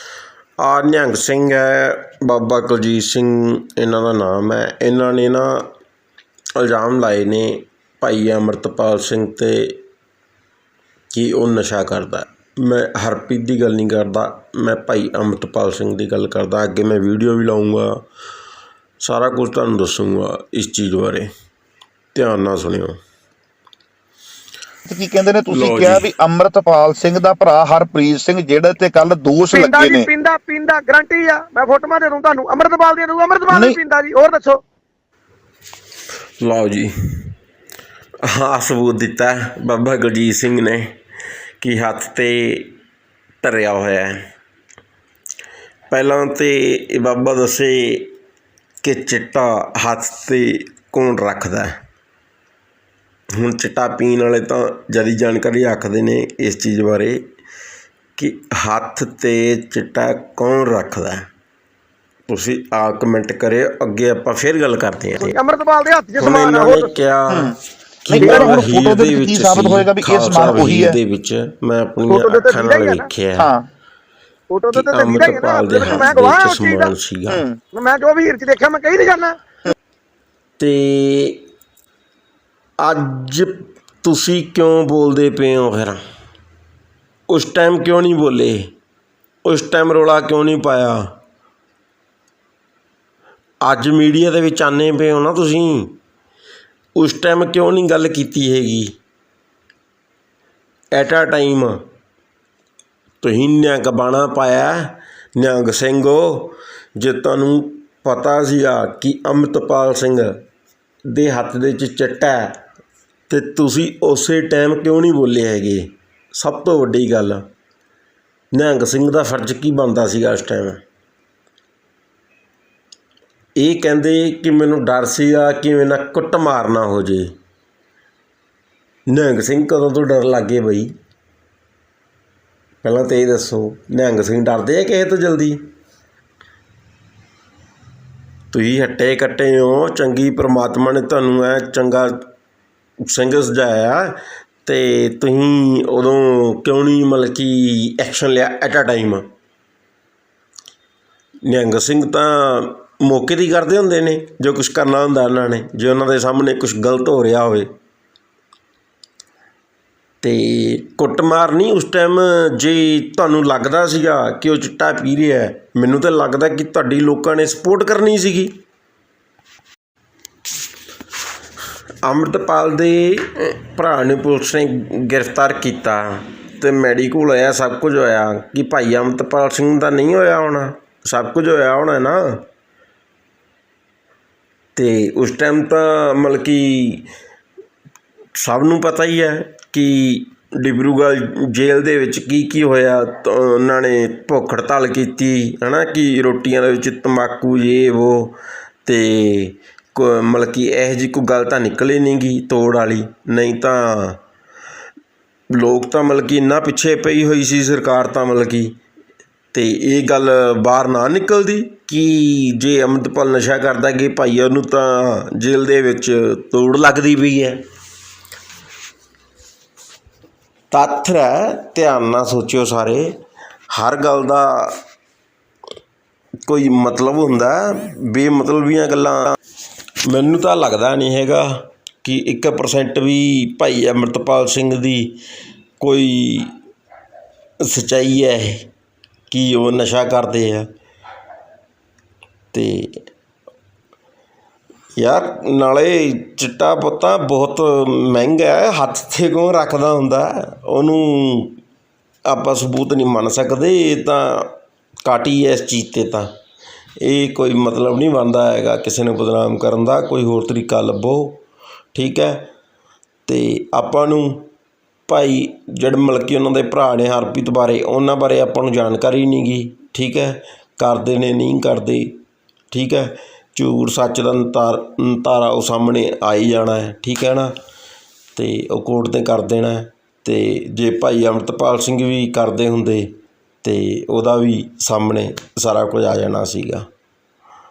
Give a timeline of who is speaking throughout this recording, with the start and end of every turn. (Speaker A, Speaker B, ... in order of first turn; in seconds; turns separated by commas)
Speaker A: 0.6-5.7, Speaker A: 6.6-9.8, Speaker A: 11.1-18.0, Speaker A: 19.0-21.3, Speaker A: 22.1-23.0, Speaker B: 24.9-30.1, Speaker A: 25.5-26.1, Speaker C: 29.5-34.6, Speaker B: 33.5-33.8, Speaker A: 36.4-36.9, Speaker A: 38.2-41.0, Speaker A: 41.6-42.7, Speaker A: 43.4-44.2, Speaker A: 45.9-48.1, Speaker A: 48.8-51.7, Speaker A: 53.4-57.2, Speaker A: 58.2-61.2, Speaker A: 62.3-65.4, Speaker C: 65.2-66.9, Speaker A: 66.2-67.5, Speaker B: 67.3-67.6, Speaker A: 68.0-73.5, Speaker B: 68.1-71.0, Speaker C: 68.2-68.6, Speaker C: 72.1-73.1, Speaker B: 73.4-73.7, Speaker C: 74.5-76.9, Speaker A: 74.7-77.4, Speaker B: 77.3-77.6, Speaker C: 77.7-79.4, Speaker A: 80.6-81.4, Speaker A: 82.8-86.0, Speaker A: 87.3-88.7, Speaker A: 89.5-91.1, Speaker A: 93.6-96.0, Speaker A: 97.0-98.9, Speaker A: 100.9-101.8, Speaker A: 103.2-110.3, Speaker A: 111.1-112.5, Speaker A: 113.3-117.4, Speaker A: 118.5-120.8, Speaker A: 123.6-127.3, Speaker A: 129.1-130.9, Speaker A: 132.8-135.6, Speaker A: 138.5-142.2, Speaker A: 143.1-149.2, Speaker A: 151.4-157.7, Speaker A: 160.2-168.5, Speaker A: 172.0-182.4, Speaker A: 184.8-187.1, Speaker A: 188.4-204.2, Speaker A: 205.5-208.8, Speaker A: 209.5-217.6, Speaker A: 220.7-223.2, Speaker A: 223.7-224.8, Speaker A: 226.5-229.3, Speaker A: 230.1-235.2, Speaker A: 235.8-236.5, Speaker A: 237.7-238.7, Speaker A: 239.3-240.7, Speaker A: 242.5-243.0, Speaker A: 245.0-251.6, Speaker A: 252.3-254.5, Speaker A: 255.1-256.3, Speaker A: 257.0-261.4, Speaker A: 261.9-262.5, Speaker A: 263.3-264.5, Speaker A: 265.1-272.2, Speaker A: 272.7-277.5, Speaker A: 278.4-286.9